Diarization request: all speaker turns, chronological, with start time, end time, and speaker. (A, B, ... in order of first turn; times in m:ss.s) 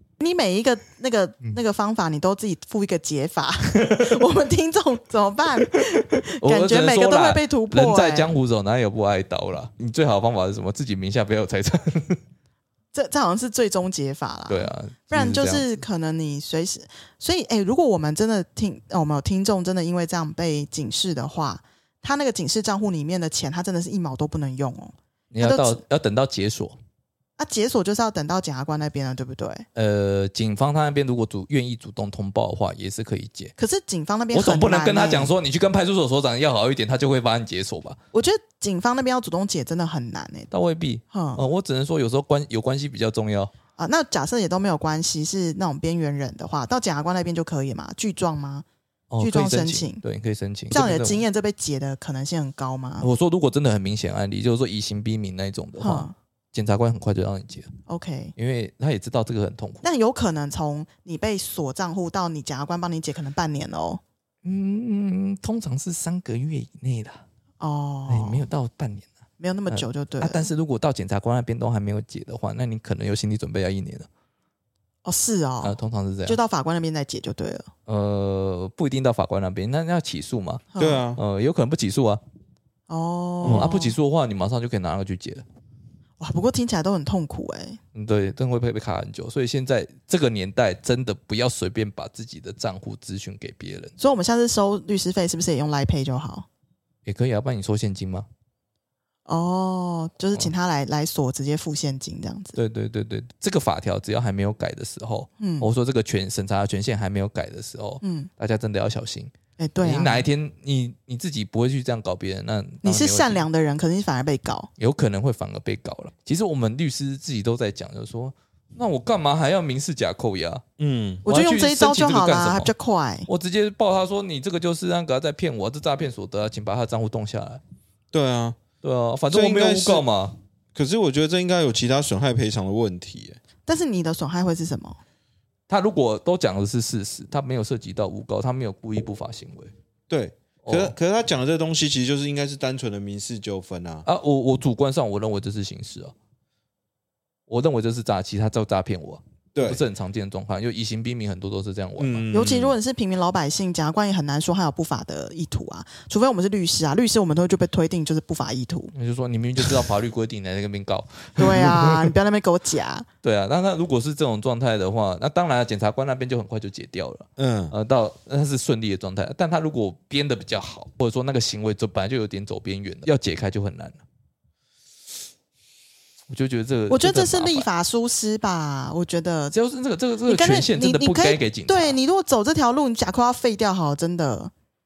0:00.2-0:08.3 A
0:06.3-0:12.2 B
0:12.9-0:25.8 A
0:14.5-0:15.7 B
0:25.3-0:26.8 B
0:27.4-0:29.6 A
0:29.7-0:33.5 B
0:33.6-0:35.3 A
0:34.3-0:38.0 B
0:38.1-0:40.5 A
0:40.5-0:43.5 B
0:41.1-0:41.4 A
0:43.8-0:48.6 A
0:49.1-0:51.2 B
0:49.2-0:50.0 A
0:50.7-0:53.1 A
0:53.0-0:57.7 B
0:55.8-0:56.1 A
0:57.9-0:58.3 A
0:58.4-0:59.8 B
0:59.8-1:04.0 A
1:04.4-1:07.2 B
1:07.6-1:08.4 A
1:08.1-1:09.1 B
1:09.4-1:10.5 A
1:09.7-1:14.1 B
1:15.0-1:17.7 A
1:15.6-1:16.4 B
1:17.9-1:20.6 B
1:20.7-1:21.0 A
1:20.8-1:21.2 C
1:21.2-1:22.2 B
1:22.9-1:24.0 A
1:23.4-1:23.7 C
1:23.4-1:25.4 B
1:26.2-1:27.8 A
1:27.9-1:33.9 B
1:34.0-1:36.4 A
1:37.0-1:38.3 B
1:39.3-1:42.6 A
1:42.5-1:49.3 B
1:45.4-1:45.7 A
1:48.0-1:48.3 A
1:49.6-1:50.2 A
1:49.8-1:53.4 B
1:52.8-1:54.7 A
1:54.8-2:00.6 B
2:00.8-2:01.2 C
2:01.2-2:03.3 A
2:01.2-2:02.7 B
2:03.3-2:07.6 B
2:08.1-2:08.6 C
2:08.8-2:10.4 B
2:09.3-2:10.0 C
2:10.7-2:13.4 C
2:13.6-2:15.0 A
2:15.7-2:19.7 B
2:20.1-2:24.0 C
2:20.6-2:20.9 B
2:24.0-2:26.1 B
2:27.5-2:32.2 B
2:29.5-2:29.8 C
2:32.0-2:32.8 C
2:32.3-2:38.9 A
2:38.9-2:42.1 B
2:41.4-2:43.0 A
2:43.2-2:54.0 B
2:47.4-2:47.7 C
2:56.3-2:57.7 B
2:56.9-2:59.5 A
2:59.5-3:02.0 B
3:00.2-3:04.5 A